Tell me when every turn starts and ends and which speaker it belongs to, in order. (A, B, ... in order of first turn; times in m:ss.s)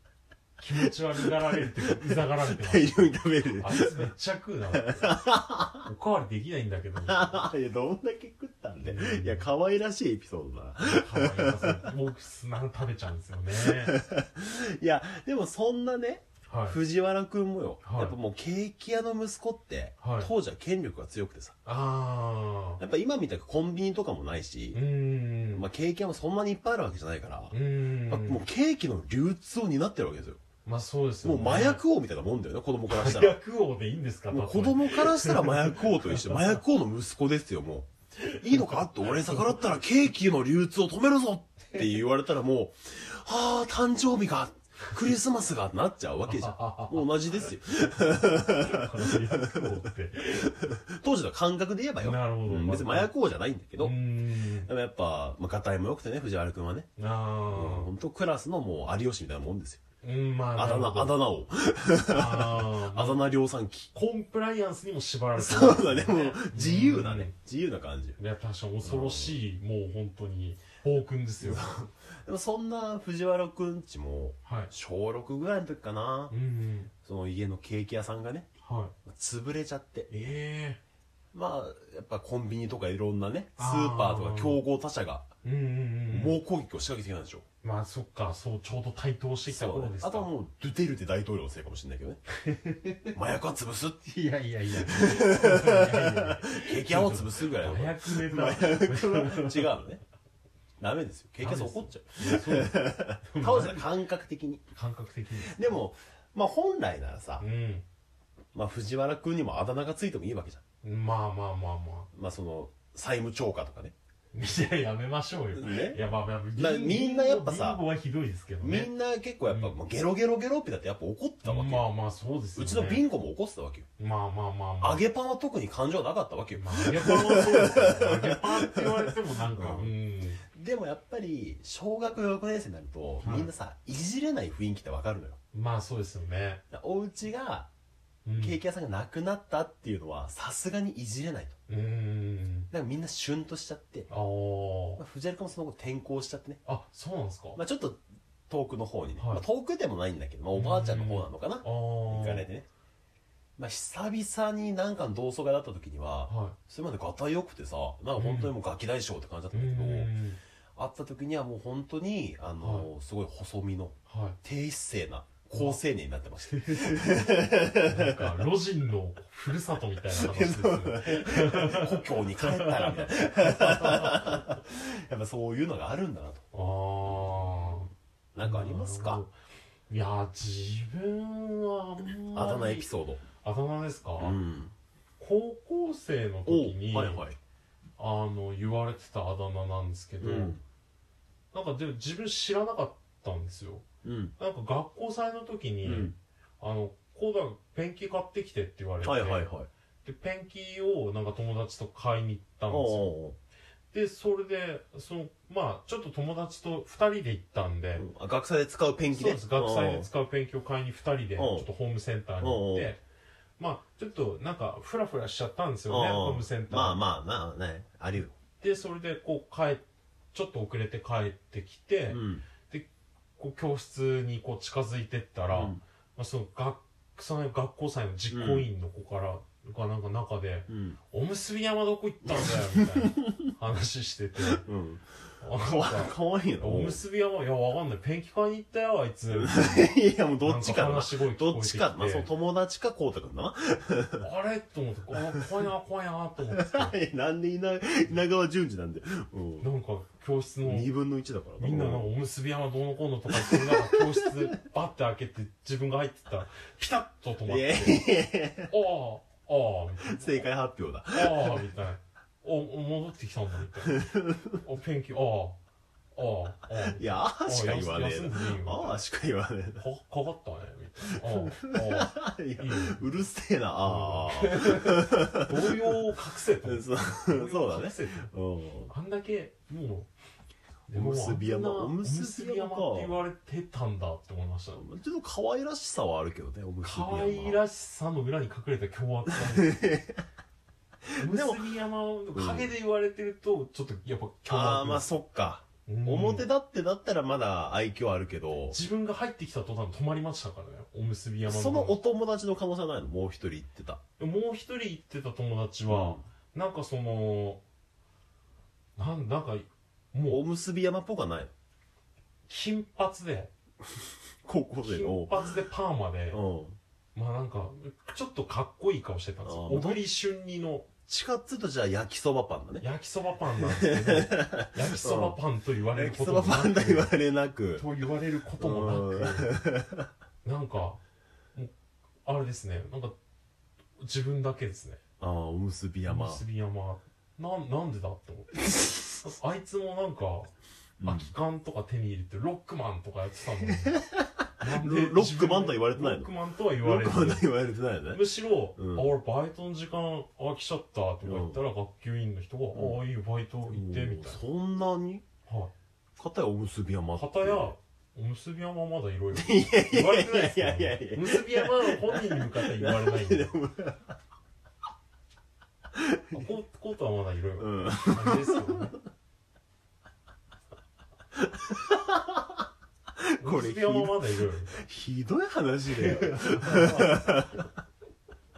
0:00.6-0:05.1 A
0:00.8-0:04.1 B
0:04.7-0:05.9 B
0:05.8-0:07.3 A
0:07.1-0:11.9 B
0:08.8-0:09.4 A
0:10.8-0:14.0 A
0:13.6-0:21.6 B
0:16.5-0:16.8 A
0:17.8-0:18.2 A
0:20.0-0:20.3 A
0:21.6-0:22.8 A
0:22.8-0:24.8 B
0:24.7-0:25.7 A
0:25.5-0:30.4 B
0:27.5-0:28.4 A
0:30.6-0:31.8 A
0:31.2-0:33.4 B
0:32.9-0:36.6 A
0:34.3-0:49.7 B
0:38.4-0:39.7 A
0:46.3-0:50.6 A
0:50.4-0:56.9 B
0:52.0-0:53.1 A
0:53.8-0:54.7 A
0:57.0-0:57.9 A
0:57.5-0:59.8 B
1:00.0-1:01.2 A
1:00.6-1:03.9 B
1:02.1-1:03.2 A
1:03.9-1:07.3 A
1:05.4-1:08.2 B
1:08.2-1:11.7 A
1:08.8-1:09.4 B
1:11.4-1:16.4 B
1:14.4-1:14.7 A
1:16.3-1:16.9 A
1:17.0-1:18.5 B
1:18.6-1:18.9 A
1:19.0-1:20.1 B
1:20.1-1:20.8 A
1:21.3-1:25.3 B
1:23.6-1:24.6 A
1:25.4-1:26.4 A
1:26.1-1:27.4 B
1:27.6-1:30.3 A
1:29.5-1:32.2 B
1:32.4-1:33.1 A
1:33.1-1:34.1 B
1:34.1-1:39.8 A
1:34.7-1:40.0 B
1:40.8-1:44.6 B
1:41.4-1:43.9 A
1:44.7-1:45.8 A
1:45.4-1:47.5 B
1:47.4-1:47.8 A
1:48.5-1:50.6 B
1:50.8-1:52.1 A
1:52.1-1:53.9 B
1:54.3-1:58.9 A
1:55.6-1:56.0 B
1:56.6-1:57.8 B
1:58.6-2:01.9 B
1:59.5-1:59.8 A
2:01.4-2:03.0 A
2:02.6-2:03.9 B
2:04.0-2:05.0 A
2:04.8-2:09.9 B
2:06.6-2:10.4 A
2:10.5-2:15.4 B
2:13.2-2:13.5 A
2:15.5-2:16.6 A
2:16.7-2:17.7 B
2:18.3-2:18.6 A
2:18.4-2:21.6 B
2:21.7-2:22.7 A
2:22.7-2:24.1 B
2:24.1-2:25.0 A
2:25.0-2:26.6 B
2:26.7-2:27.6 A
2:27.6-2:32.7 B
2:29.2-2:29.4 A
2:30.5-2:32.5 A
2:33.6-2:40.1 B
2:36.3-2:36.6 A
2:38.2-2:38.5 A
2:39.5-2:40.4 A
2:40.8-2:48.2 B
2:42.6-2:42.9 A
2:44.1-2:44.4 A
2:45.5-2:45.8 A
2:46.4-2:54.6 A
2:50.1-2:56.4 B
2:56.5-2:57.9 A
2:57.0-2:59.2 B
2:58.4-2:59.3 A
2:59.9-3:02.9 A
3:02.3-3:03.2 B
3:03.4-3:04.4 A
3:04.2-3:04.7 B
3:05.2-3:07.2 A
3:06.5-3:07.4 B
3:08.0-3:10.6 A
3:10.2-3:10.6 B
3:11.5-3:13.8 A
3:14.0-3:14.3 B
3:14.4-3:19.5 A
3:15.8-3:16.2 B
3:19.0-3:19.7 B
3:20.0-3:23.1 A
3:22.7-3:23.4 B
3:23.9-3:28.1 A
3:28.0-3:30.1 B
3:29.1-3:33.0 A
3:31.4-3:31.7 B
3:32.4-3:32.9 B
3:33.6-3:37.0 A
3:35.9-3:38.3 B
3:38.6-3:54.6 A
3:42.1-3:42.5 B
3:45.5-3:45.8 B
3:48.3-3:48.7 B
3:50.7-3:51.0 B
3:52.3-3:53.3 B
3:54.4-3:55.0 B
3:55.4-3:59.9 A
3:55.6-3:57.0 B
3:59.3-4:04.3 B
4:00.4-4:02.3 A
4:04.2-4:06.9 A
4:06.5-4:09.7 B
4:09.6-4:10.9 A
4:10.6-4:12.1 B
4:11.6-4:18.0 A
4:13.3-4:14.3 B
4:17.5-4:18.7 B
4:18.7-4:20.4 A
4:20.0-4:21.6 B
4:21.1-4:25.6 A
4:23.8-4:24.5 B
4:26.2-4:29.0 A
4:26.9-4:29.8 B
4:29.8-4:33.0 A
4:31.2-4:35.5 B
4:33.8-4:38.3 A
4:36.6-4:38.9 B
4:38.9-4:40.1 A
4:40.9-4:44.8 A
4:40.9-4:43.2 B
4:44.8-4:47.6 B
4:46.8-4:49.8 A
4:49.3-4:50.2 B
4:51.2-4:51.7 B
4:51.2-4:55.1 A
4:52.3-4:52.7 B
4:54.5-4:58.8 B
4:55.9-4:56.5 A
4:58.7-5:02.0 A
5:01.5-5:04.0 B
5:04.2-5:07.6 A
5:05.9-5:06.2 B
5:09.0-5:10.4 A
5:10.3-5:11.5 B
5:12.5-5:13.5 A
5:14.4-5:15.5 B
5:14.8-5:16.4 A
5:16.3-5:16.8 B
5:17.2-5:20.9 A
5:19.4-5:20.0 B
5:21.1-5:22.9 B
5:22.8-5:27.1 A
5:23.6-5:25.4 B
5:25.9-5:27.8 B
5:27.8-5:29.6 A
5:28.6-5:30.1 B
5:30.4-5:31.0 A
5:32.2-5:33.2 A
5:34.0-5:35.0 A
5:35.2-5:36.4 B
5:36.1-5:38.7 A
5:38.7-5:39.0 B
5:39.2-5:40.5 A
5:41.0-5:41.3 B
5:41.0-5:44.0 A
5:43.9-5:44.2 B
5:44.6-5:47.5 A
5:44.7-5:48.2 B
5:48.1-5:54.4 A
5:48.8-5:49.1 B
5:51.2-5:51.6 B
5:52.7-5:53.0 B
5:53.7-5:55.2 B
5:55.5-5:55.7 A
5:56.2-5:57.7 B
5:57.2-6:03.5 A
5:59.4-6:04.2 B
6:06.0-6:06.5 B
6:06.3-6:09.0 A
6:07.6-6:08.9 B
6:11.4-6:12.6 B
6:13.2-6:17.7 B
6:13.4-6:14.7 A
6:16.0-6:17.2 A